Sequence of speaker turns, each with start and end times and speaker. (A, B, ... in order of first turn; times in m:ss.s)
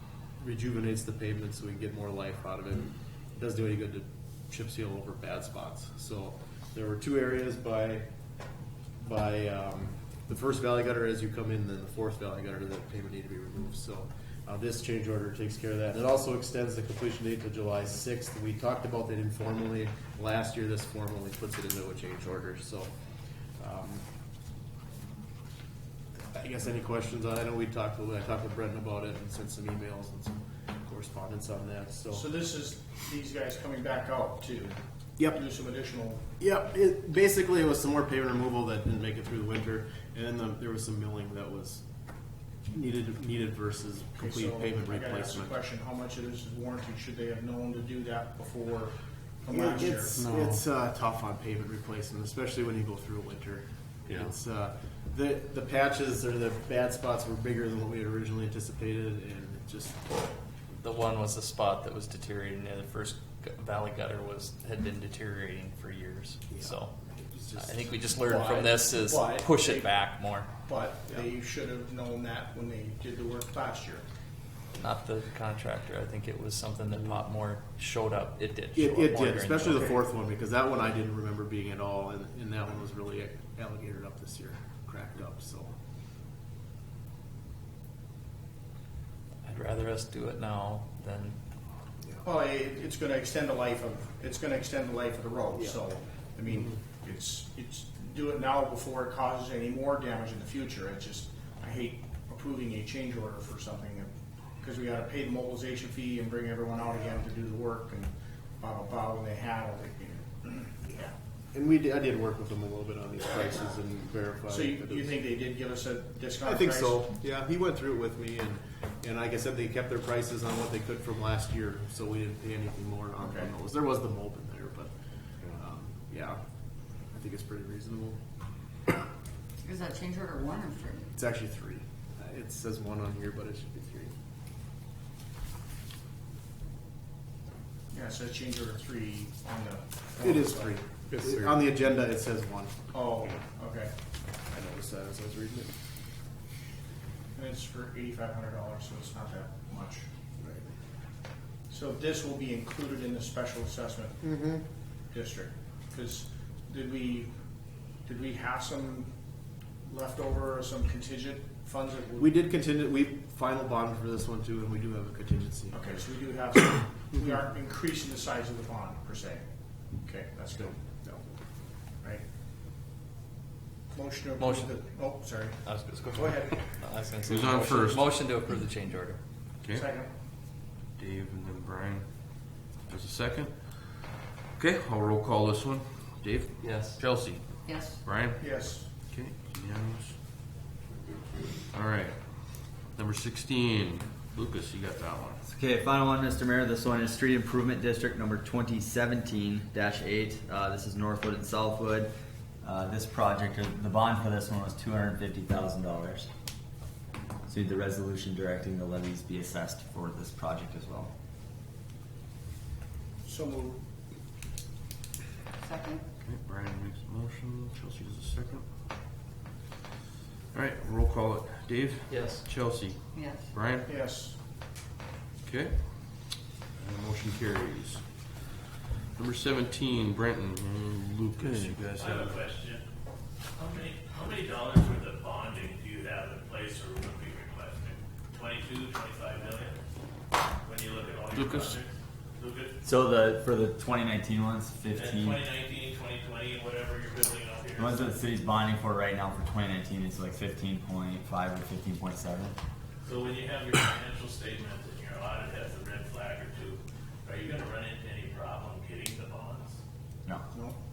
0:00.4-0:08.1 A
0:09.0-0:22.9 A
0:23.6-0:24.0 A
0:26.3-0:32.2 A
0:32.1-0:34.8 B
0:35.3-0:36.3 B
0:36.4-0:41.8 A
0:42.7-0:45.6 A
0:44.2-0:50.3 B
0:49.5-1:00.1 A
0:50.2-0:50.6 C
1:00.8-1:06.9 D
1:06.5-1:08.0 A
1:07.6-1:10.5 D
1:08.2-1:10.0 B
1:10.6-1:14.0 B
1:14.8-1:19.9 D
1:18.7-1:25.7 A
1:19.7-1:20.0 B
1:29.4-1:31.4 D
1:32.2-1:50.9 B
1:35.5-1:35.8 A
1:51.5-1:55.1 A
1:54.5-1:57.1 B
1:56.4-2:04.9 A
2:03.2-2:03.5 B
2:05.6-2:06.4 A
2:07.1-2:08.2 A
2:09.6-2:11.1 E
2:11.1-2:14.1 A
2:17.9-2:20.8 B
2:20.2-2:22.8 A
2:21.1-2:21.4 C
2:22.9-2:23.9 B
2:24.5-2:25.7 A
2:27.3-2:30.0 B
2:30.4-2:30.7 A
2:31.7-2:34.2 B
2:34.2-2:34.6 A
2:35.1-2:37.3 B
2:38.0-2:39.1 B
2:39.8-2:42.3 B
2:42.2-2:46.0 A
2:45.7-2:49.4 B
2:50.0-2:50.8 B
2:50.8-2:51.2 A
2:53.9-2:56.7 B
2:54.4-2:54.8 D
2:55.6-2:59.2 D
2:57.2-2:58.2 C
2:59.6-2:59.9 C
2:59.7-3:00.1 B
3:01.0-3:04.0 C
3:04.6-3:10.2 C
3:06.6-3:07.0 D
3:07.6-3:08.0 E
3:08.4-3:08.9 B
3:11.7-3:15.4 C
3:15.4-3:22.1 F
3:22.6-3:26.3 F
3:27.5-3:31.1 F
3:33.2-3:33.8 B
3:35.6-3:36.0 E
3:36.2-3:38.7 C
3:40.5-3:43.9 C
3:42.1-3:42.4 D
3:43.1-3:43.5 E
3:43.8-3:44.4 B
3:45.4-3:48.5 C
3:49.1-3:52.4 C
3:52.0-3:52.8 G
3:53.6-3:59.8 G
4:00.6-4:02.8 G
4:01.3-4:01.8 C
4:02.8-4:05.4 F
4:04.9-4:08.1 G
4:07.8-4:12.6 F
4:13.0-4:19.8 G